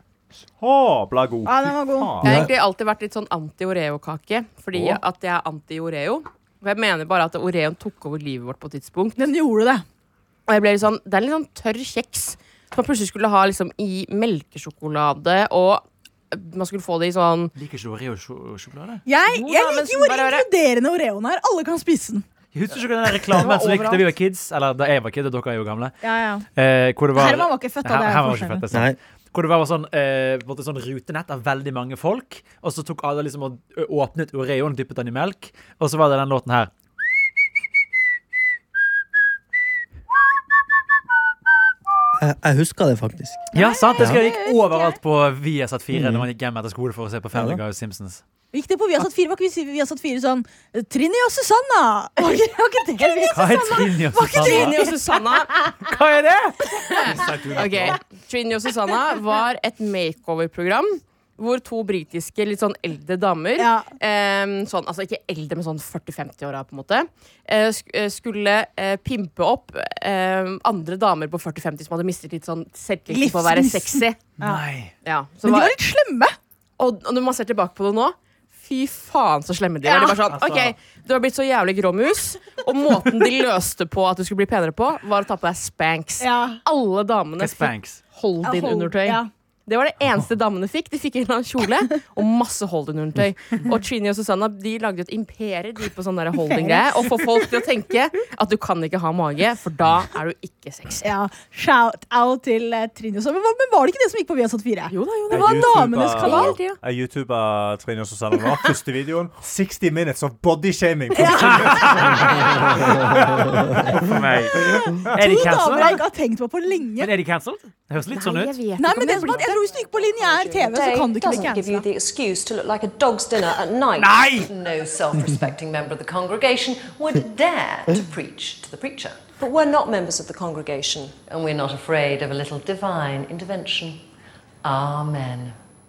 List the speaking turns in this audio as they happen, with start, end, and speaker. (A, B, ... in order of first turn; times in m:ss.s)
0:00.6-0:02.5 A
0:01.4-0:02.1 B
0:02.2-0:09.2 C
0:02.2-0:02.5 D
0:09.2-0:09.8 B
0:10.5-0:17.5 C
0:17.6-0:19.0 E
0:19.0-0:22.2 B
0:19.2-0:20.5 C
0:22.5-0:26.0 E
0:23.4-0:24.1 C
0:26.0-0:26.4 B
0:26.6-0:36.7 E
0:27.1-0:28.6 B
0:28.7-0:29.0 D
0:42.2-0:43.5 D
0:43.5-0:48.2 E
0:43.5-0:45.0 B
0:45.9-0:46.3 D
0:47.3-0:47.6 D
0:48.5-0:55.9 B
0:52.2-0:55.6 C
0:53.3-0:54.8 E
0:55.8-0:56.6 E
0:56.7-1:14.2 C
0:57.0-0:58.0 A
1:03.6-1:03.8 B
1:13.1-1:14.6 B
1:14.4-1:14.9 E
1:15.0-1:15.7 C
1:15.4-1:16.3 B
1:16.8-1:41.1 C
1:19.8-1:20.2 B
1:20.2-1:20.8 A
1:26.2-1:26.6 B
1:27.4-1:28.0 E
1:28.4-1:29.3 B
1:36.4-1:37.4 B
1:41.0-1:46.6 B
1:44.9-1:46.8 C
1:45.3-1:55.6 A
1:51.1-1:52.3 B
1:51.6-1:52.2 E
1:53.9-1:56.0 E
1:54.9-1:57.1 B
1:57.0-1:58.6 E
1:58.1-1:59.6 C
1:58.8-2:01.9 B
2:00.1-2:00.5 C
2:00.6-2:14.0 F
2:04.0-2:04.5 E
2:14.6-2:15.6 F